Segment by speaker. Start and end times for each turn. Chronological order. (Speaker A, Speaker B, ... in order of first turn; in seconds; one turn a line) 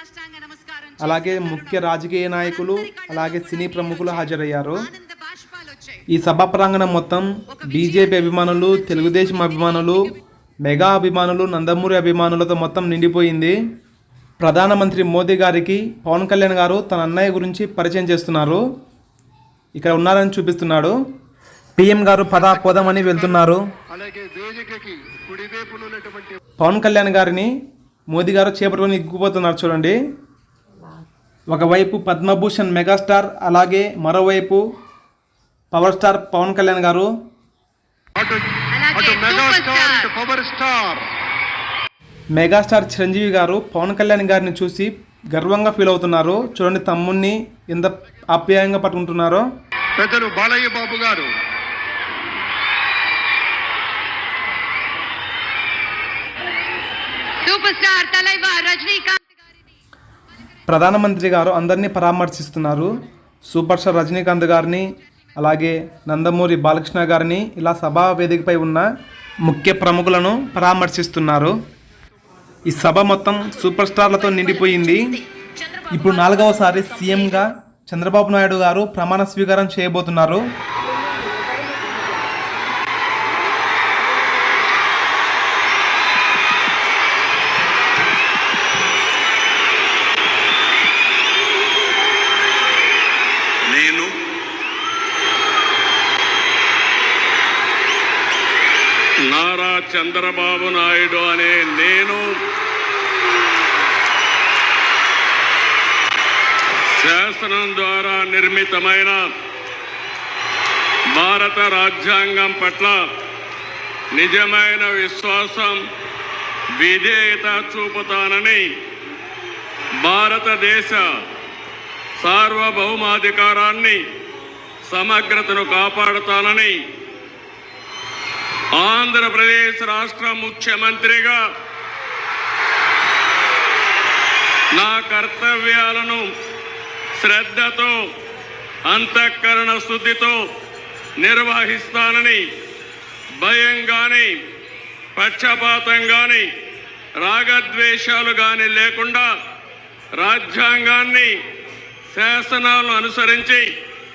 Speaker A: 1.0-4.9
Speaker A: 6.1-10.0
Speaker A: 10.6-13.6
Speaker A: 14.4-18.6
Speaker A: 19.8-20.9
Speaker A: 21.8-23.6
Speaker B: 22.6-23.4
Speaker B: 23.9-26.4
Speaker A: 26.6-27.5
Speaker A: 28.1-30.0
Speaker A: 31.5-34.6
Speaker A: 35.7-37.1
Speaker B: 38.1-41.0
Speaker C: 38.8-40.1
Speaker A: 42.3-49.5
Speaker B: 50.0-51.3
Speaker C: 57.5-59.2
Speaker A: 60.7-62.9
Speaker A: 63.5-64.8
Speaker A: 65.4-68.9
Speaker A: 69.5-71.5
Speaker A: 72.7-75.2
Speaker A: 75.9-80.4
Speaker D: 99.2-102.3
Speaker D: 106.9-109.2
Speaker D: 111.1-113.0
Speaker D: 114.1-115.8
Speaker D: 116.8-118.7
Speaker D: 120.0-121.1
Speaker D: 122.2-124.0
Speaker D: 124.9-126.8
Speaker D: 128.8-131.4
Speaker D: 134.8-136.2
Speaker D: 137.2-138.0
Speaker D: 138.9-140.4
Speaker D: 141.2-142.4
Speaker D: 143.4-144.3
Speaker D: 145.2-146.5
Speaker D: 147.2-149.3
Speaker D: 150.2-151.3
Speaker D: 152.1-153.7